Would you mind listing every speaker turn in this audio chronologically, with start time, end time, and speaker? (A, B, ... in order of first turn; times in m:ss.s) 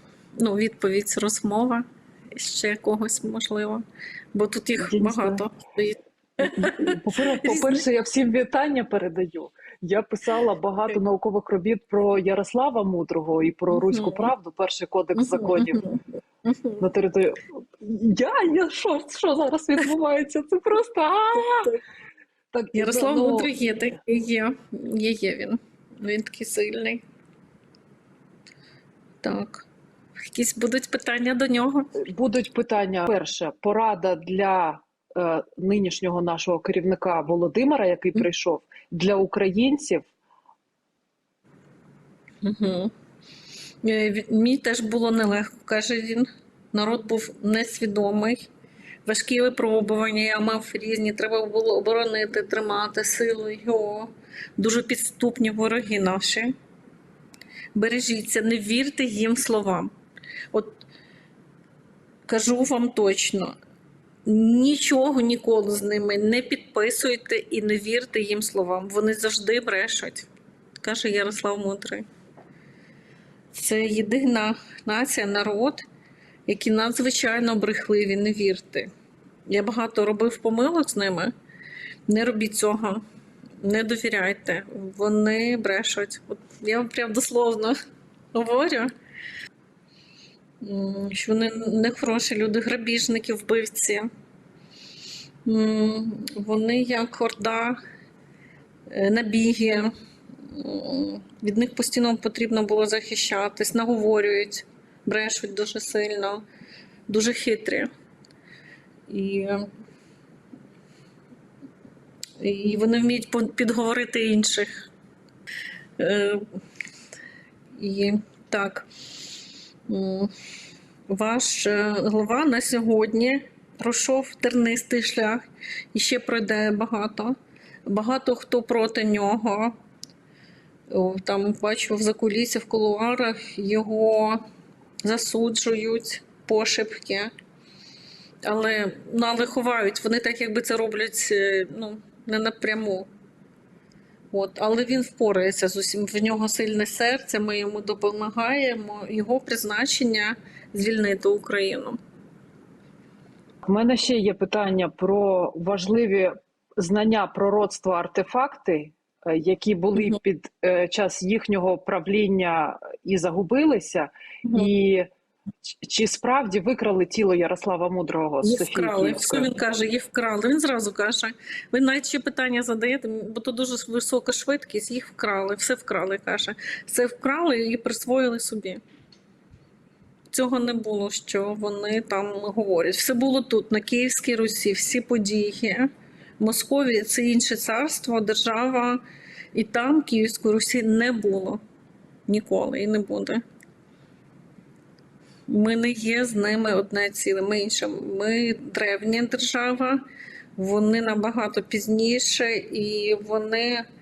0:00.4-0:07.8 A
0:04.8-0:05.4 B
0:06.4-0:15.8 B
0:13.7-0:14.3 A
0:15.2-0:16.8 A
0:16.8-0:21.8 B
0:22.5-0:23.5 B
0:22.7-0:27.0 A
0:29.2-0:29.7 A
0:30.3-0:31.9 A
0:32.0-0:40.1 B
0:42.4-0:42.9 A
0:43.8-0:48.5 A
0:49.1-0:56.5 A
0:57.8-0:59.9 A
1:00.5-1:00.8 A
1:02.3-1:03.6 A
1:04.2-1:10.3 A
1:10.8-1:12.1 A
1:13.5-1:15.8 A
1:16.5-1:18.9 A
1:19.5-1:21.3 A
1:22.1-1:23.0 A
1:23.6-1:27.8 A
1:28.3-1:28.9 A
1:30.6-1:34.1 A
1:35.4-1:37.8 A
1:38.9-1:39.9 A
1:40.5-1:46.4 A
1:47.1-1:47.9 A
1:49.1-1:49.7 A
1:52.4-1:54.9 A
1:56.0-1:56.5 A
1:57.8-1:58.9 A
1:59.9-2:00.3 A
2:01.1-2:09.8 A
2:10.9-2:14.4 A
2:15.0-2:17.3 A
2:18.4-2:23.1 A
2:24.3-2:32.0 A
2:33.6-2:45.1 B
2:45.7-2:49.5 B
2:48.4-2:58.8 A
3:00.3-3:09.0 A
3:09.5-3:11.6 A
3:12.3-3:13.4 A
3:15.5-3:20.0 A
3:20.6-3:23.8 A